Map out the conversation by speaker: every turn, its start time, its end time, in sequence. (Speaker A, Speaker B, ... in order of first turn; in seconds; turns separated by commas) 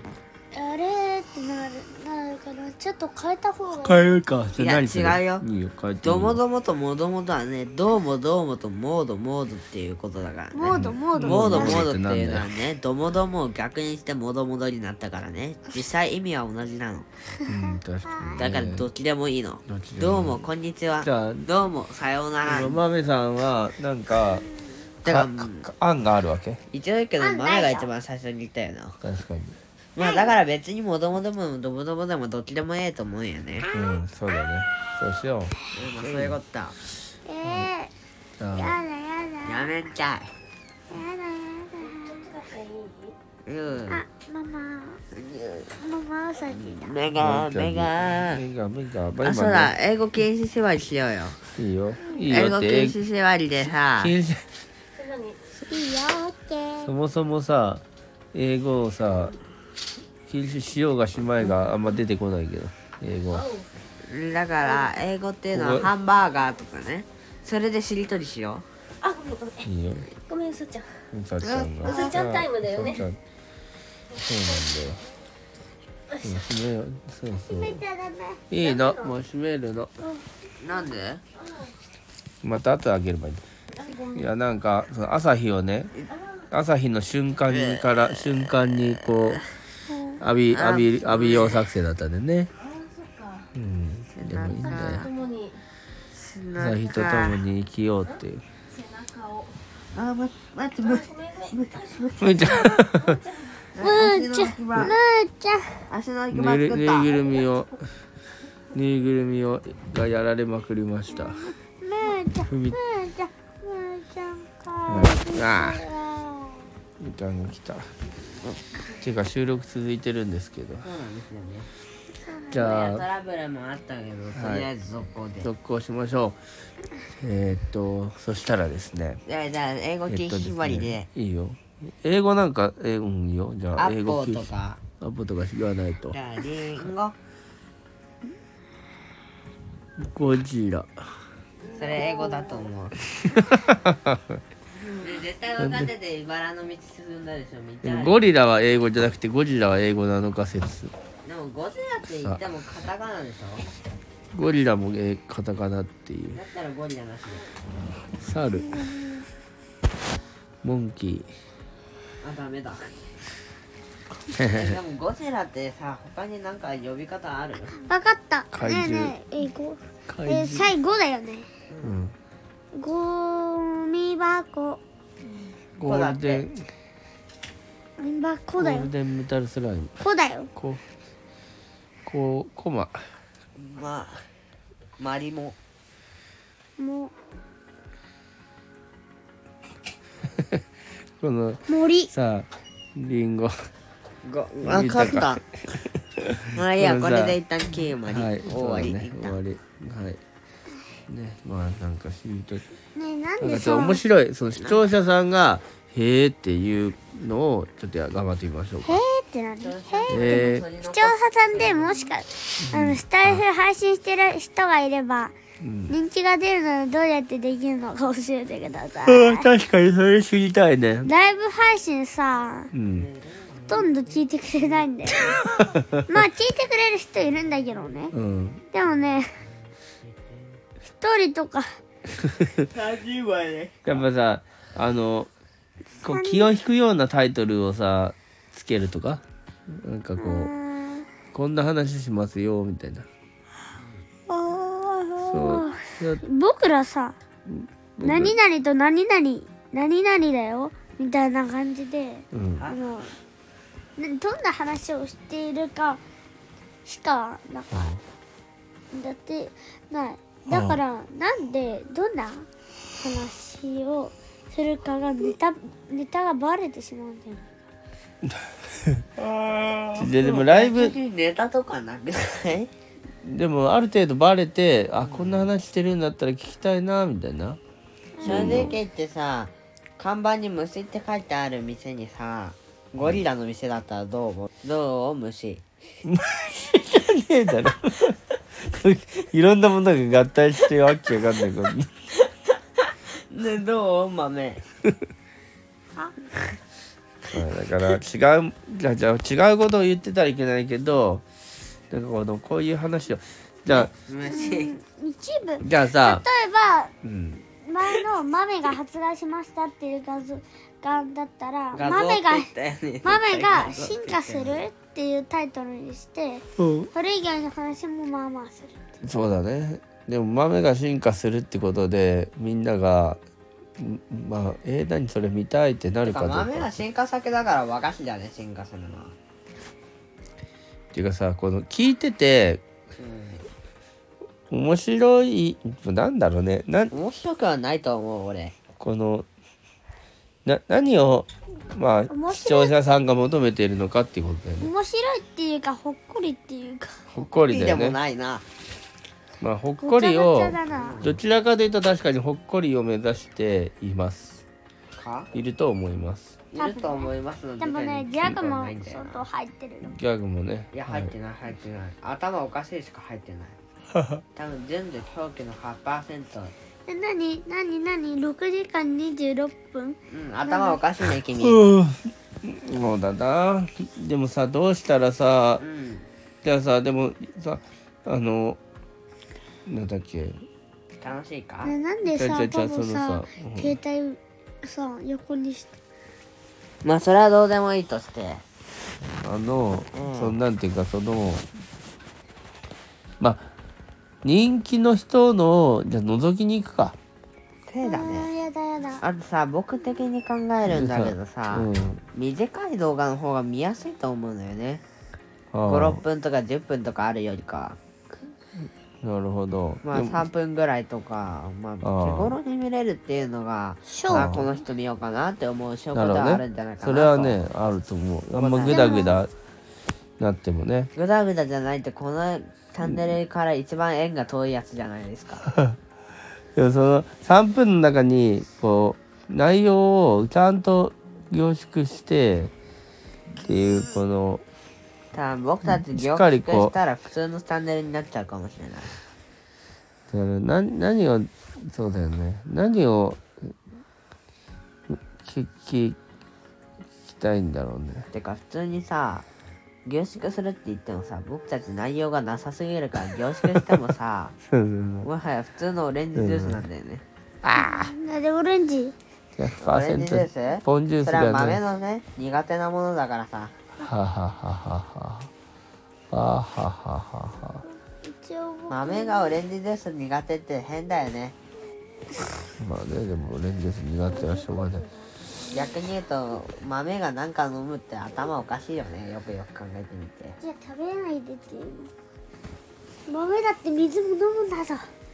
Speaker A: 0.5-4.2, Speaker B: 3.8-6.4, Speaker C: 4.6-5.5, Speaker C: 6.0-17.1, Speaker A: 10.5-11.9, Speaker B: 10.7-12.4, Speaker A: 17.4-18.5, Speaker B: 17.5-18.9, Speaker C: 18.4-22.8, Speaker B: 19.7-20.4, Speaker B: 21.0-21.5, Speaker B: 22.4-24.5, Speaker C: 25.0-25.7, Speaker B: 25.1-26.6, Speaker C: 26.7-28.9, Speaker A: 27.2-27.9, Speaker B: 29.0-29.6, Speaker C: 29.9-33.7, Speaker A: 30.0-30.3, Speaker A: 33.7-34.0, Speaker B: 33.7-36.4, Speaker C: 35.7-36.7, Speaker A: 37.3-37.9, Speaker B: 37.4-37.7, Speaker B: 38.4-38.8, Speaker A: 38.5-39.7, Speaker C: 39.4-40.3, Speaker A: 40.9-42.3, Speaker D: 42.3-43.1, Speaker C: 43.4-44.0, Speaker A: 43.9-45.0, Speaker C: 45.1-45.7, Speaker A: 45.7-46.9, Speaker C: 46.5-48.4, Speaker B: 47.2-49.7, Speaker C: 49.2-51.4, Speaker B: 51.5-53.0, Speaker C: 52.3-54.1, Speaker B: 54.0-54.5, Speaker D: 55.0-55.4, Speaker A: 55.5-56.9, Speaker B: 56.8-57.8, Speaker B: 58.3-59.3, Speaker B: 60.3-63.5, Speaker D: 63.4-63.7, Speaker C: 64.0-68.7, Speaker B: 65.5-65.9, Speaker D: 69.0-69.7, Speaker B: 69.6-70.1, Speaker D: 70.2-71.0, Speaker B: 71.1-73.2, Speaker C: 71.4-72.2, Speaker D: 71.9-73.0, Speaker B: 74.2-75.0, Speaker B: 76.2-77.8, Speaker A: 77.4-78.4, Speaker B: 78.5-79.9, Speaker C: 80.6-81.2, Speaker B: 82.4-83.4, Speaker D: 83.8-84.1, Speaker B: 84.1-85.9, Speaker B: 86.5-89.4, Speaker A: 89.9-90.2, Speaker B: 90.2-92.5, Speaker C: 90.5-91.7, Speaker D: 92.8-93.4, Speaker B: 93.5-95.1, Speaker C: 94.2-95.1, Speaker D: 94.7-95.6, Speaker C: 96.1-97.4, Speaker B: 96.6-98.4, Speaker D: 98.8-99.5, Speaker C: 99.9-102.8, Speaker D: 101.2-101.5, Speaker B: 102.2-103.2, Speaker C: 103.8-105.0, Speaker A: 103.8-105.8, Speaker C: 105.9-107.2, Speaker B: 106.3-107.8, Speaker B: 108.7-111.5, Speaker A: 111.1-116.7, Speaker B: 112.5-112.8, Speaker B: 114.9-115.8, Speaker B: 117.0-117.9, Speaker B: 119.0-120.9, Speaker C: 120.8-121.7, Speaker A: 122.2-122.5, Speaker B: 122.5-123.1, Speaker C: 122.5-125.5, Speaker B: 124.3-124.7, Speaker B: 125.4-126.4, Speaker B: 127.2-129.2, Speaker C: 129.2-131.1, Speaker B: 130.1-134.5, Speaker C: 133.8-134.8, Speaker B: 135.0-136.2, Speaker C: 136.1-137.2, Speaker B: 140.0-140.9, Speaker C: 141.7-143.0, Speaker B: 143.2-144.4, Speaker C: 144.8-148.2, Speaker B: 145.6-145.9, Speaker B: 147.8-150.9, Speaker C: 151.2-153.7, Speaker B: 154.3-156.4, Speaker C: 156.3-157.4, Speaker B: 158.2-158.8, Speaker A: 158.6-159.2, Speaker B: 160.6-161.3, Speaker C: 162.2-162.9, Speaker B: 164.3-164.7, Speaker C: 164.5-167.8, Speaker A: 167.8-171.5, Speaker B: 168.5-169.1, Speaker B: 170.1-170.7, Speaker C: 171.7-172.0, Speaker B: 171.8-172.1, Speaker A: 172.7-174.8, Speaker B: 175.8-176.7, Speaker C: 175.8-176.5, Speaker A: 178.0-178.9, Speaker B: 178.6-179.9, Speaker A: 180.0-180.5, Speaker B: 180.6-180.8, Speaker B: 182.1-183.0, Speaker C: 183.6-184.2, Speaker C: 185.0-185.6, Speaker A: 186.8-187.1, Speaker B: 191.2-193.5, Speaker A: 191.7-192.1, Speaker C: 194.2-195.4, Speaker B: 194.6-197.4, Speaker C: 196.5-199.4, Speaker B: 198.1-200.2, Speaker B: 201.1-202.6, Speaker A: 202.9-204.0, Speaker B: 203.4-209.0, Speaker A: 208.8-215.3, Speaker C: 209.6-212.1, Speaker B: 210.1-210.7, Speaker B: 212.6-213.4, Speaker B: 215.6-215.9, Speaker A: 215.9-219.5, Speaker B: 219.1-221.1, Speaker A: 221.0-222.7, Speaker B: 222.7-223.1, Speaker C: 222.9-225.8, Speaker A: 223.7-225.3, Speaker B: 225.3-226.0, Speaker A: 226.1-228.1, Speaker B: 228.1-228.6, Speaker A: 228.7-229.3, Speaker A: 231.0-231.8, Speaker C: 232.6-234.0, Speaker B: 233.8-235.3, Speaker B: 236.0-240.5, Speaker A: 236.0-236.5, Speaker A: 240.2-241.1, Speaker B: 241.3-243.1, Speaker A: 244.3-247.2, Speaker B: 245.2-246.2, Speaker B: 247.5-248.4, Speaker A: 248.0-253.1, Speaker B: 252.3-252.7, Speaker C: 252.6-253.0, Speaker A: 254.0-256.0, Speaker A: 256.9-257.9, Speaker B: 257.7-258.0, Speaker A: 258.9-262.5, Speaker B: 260.5-260.8, Speaker A: 263.0-267.5, Speaker B: 268.2-269.0, Speaker C: 269.2-272.7, Speaker B: 269.9-270.9, Speaker B: 273.2-277.6, Speaker C: 275.0-275.5, Speaker A: 278.2-278.8, Speaker B: 278.2-278.8, Speaker C: 278.2-285.6, Speaker B: 286.1-291.9, Speaker C: 292.2-294.6, Speaker B: 297.3-301.2, Speaker B: 301.9-303.9, Speaker C: 303.7-304.7, Speaker A: 304.2-306.9, Speaker B: 305.6-306.2, Speaker B: 307.0-307.4, Speaker A: 307.6-312.5, Speaker C: 311.7-314.6, Speaker A: 313.0-318.8, Speaker B: 316.6-316.9, Speaker B: 319.0-323.2, Speaker B: 323.8-326.7, Speaker C: 326.0-329.1, Speaker B: 330.9-332.6, Speaker C: 333.0-333.5, Speaker B: 334.5-336.9, Speaker C: 336.9-338.6, Speaker B: 338.8-339.3, Speaker B: 340.4-344.7, Speaker A: 342.1-342.7, Speaker A: 344.6-347.0, Speaker B: 347.1-348.0, Speaker C: 347.4-348.4, Speaker B: 349.4-354.4, Speaker A: 349.8-351.1, Speaker C: 350.7-351.2, Speaker C: 355.0-355.3, Speaker B: 355.3-356.4, Speaker C: 356.5-359.2, Speaker A: 356.6-359.9, Speaker B: 359.8-361.1, Speaker C: 360.7-363.6, Speaker C: 364.4-366.6, Speaker A: 366.9-370.8, Speaker C: 370.1-371.7, Speaker B: 371.4-375.6, Speaker C: 375.6-376.1, Speaker B: 376.4-378.6, Speaker B: 379.7-380.4, Speaker C: 381.0-381.7, Speaker A: 381.6-385.7, Speaker B: 382.1-383.8, Speaker C: 386.8-388.4, Speaker B: 389.2-391.4, Speaker C: 389.9-390.4, Speaker B: 393.2-393.5, Speaker B: 394.2-397.0, Speaker C: 397.7-398.3, Speaker A: 397.8-399.0, Speaker C: 399.0-404.8, Speaker B: 400.6-402.0, Speaker B: 405.5-406.0, Speaker C: 405.7-407.8, Speaker B: 409.0-410.2, Speaker C: 409.8-417.4, Speaker B: 411.8-412.4, Speaker A: 413.9-414.3, Speaker B: 414.1-414.5, Speaker B: 415.9-419.3, Speaker C: 418.3-419.2, Speaker A: 418.7-419.2, Speaker B: 420.2-420.9, Speaker C: 420.9-425.5, Speaker B: 425.5-425.8, Speaker B: 426.6-432.5, Speaker B: 433.4-434.4, Speaker C: 435.1-438.9, Speaker B: 435.7-436.7, Speaker B: 440.1-443.5, Speaker B: 444.9-446.0, Speaker B: 447.1-448.1, Speaker C: 448.1-449.2, Speaker C: 449.9-454.3, Speaker B: 454.5-455.1, Speaker C: 455.0-457.0, Speaker B: 456.2-456.6, Speaker B: 457.4-457.9, Speaker A: 457.5-458.9, Speaker B: 459.4-461.6, Speaker C: 459.6-463.5, Speaker B: 463.8-465.3, Speaker B: 466.1-467.6, Speaker A: 467.6-469.4, Speaker C: 468.7-471.4, Speaker B: 472.6-474.8, Speaker A: 474.1-475.8, Speaker C: 475.5-480.4, Speaker A: 480.4-481.9, Speaker A: 483.1-484.9